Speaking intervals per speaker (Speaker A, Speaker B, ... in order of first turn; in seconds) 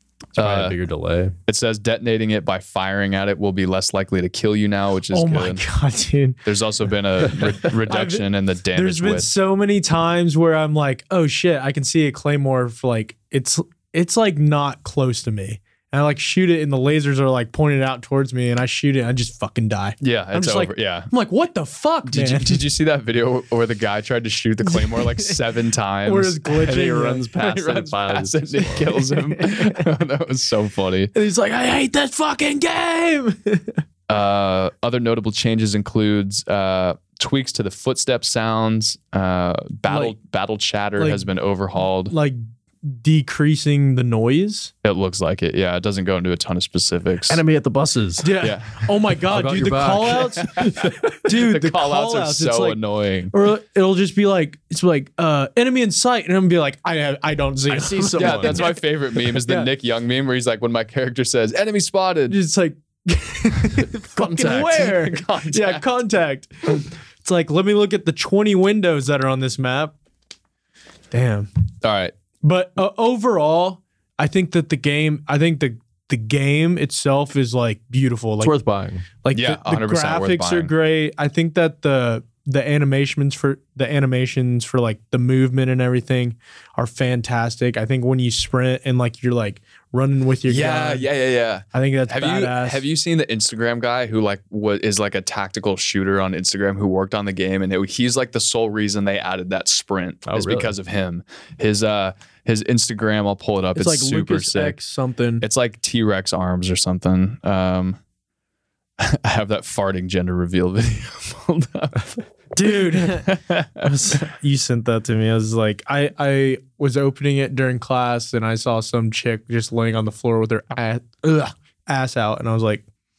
Speaker A: 0.3-1.4, 26.5-29.0, 47.3-48.4, 49.3-51.0, 57.7-58.8, 64.1-65.0, 78.4-79.1, 100.3-100.8
Speaker B: 0.4-0.8, 1.5-5.6, 6.5-9.3, 20.0-21.1, 22.1-26.5, 27.4-31.1, 34.1-42.1, 44.8-47.4, 48.4-49.0, 50.4-53.4, 58.2-62.4, 64.7-65.8, 71.8-72.1, 79.3-80.7, 90.5-104.8, 105.4-108.0, 109.0-112.2, 113.0-114.2
Speaker C: 5.1-6.4, 7.3-22.7, 24.7-25.4, 26.0-27.3, 29.2-29.8, 31.1-33.8, 39.9-40.2, 41.0-41.2, 42.1-44.7, 48.2-52.8, 53.3-59.7, 62.3-69.9, 71.1-71.5, 72.4-78.6, 79.2-91.1, 91.7-92.8, 103.8-105.5, 112.5-122.8